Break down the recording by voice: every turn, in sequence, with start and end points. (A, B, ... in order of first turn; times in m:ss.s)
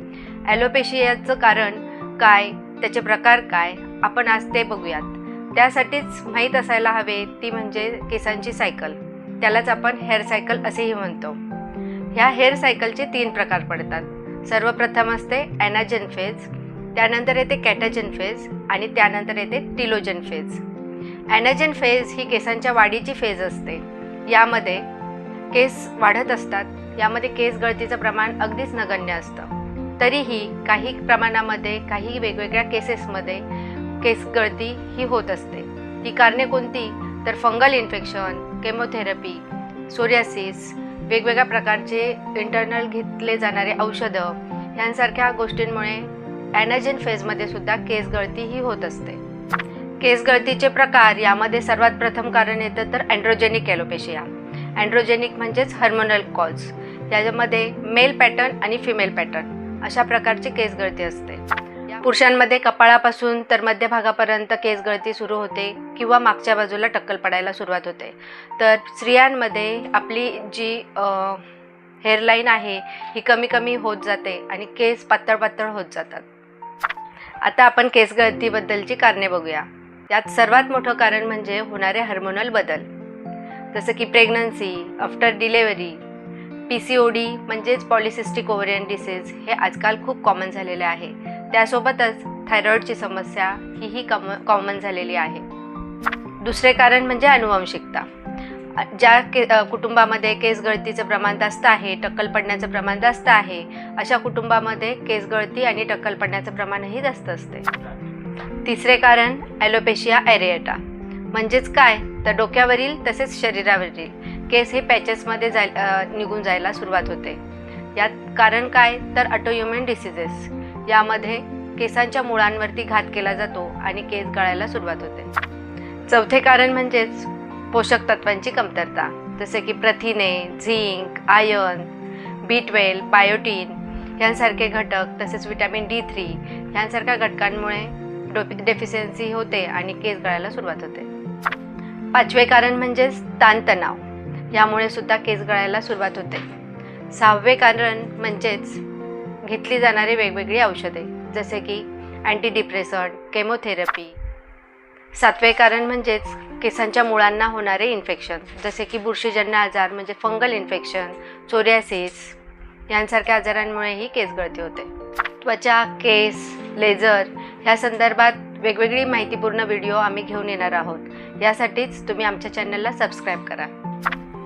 0:00.4-0:11.4 A
0:12.1-0:20.6 A
0:21.3-0:24.8 A
0:25.5-0:33.4 A
0:34.0-0:49.2 A
0:50.0-1:11.4 A
1:12.0-1:16.2 A
1:17.4-1:22.9 A
1:23.7-1:26.0 A
1:26.7-1:35.4 A
1:36.4-1:38.1 A
1:38.7-1:47.7 A
1:48.6-1:50.8 A
1:51.3-1:57.4 A
1:57.9-2:05.3 A
2:06.1-2:11.9 A
2:12.4-2:21.1 A
2:22.1-2:26.5 A
2:27.1-2:28.8 A
2:29.4-2:34.1 A
2:35.1-2:42.4 A
2:42.9-2:53.7 A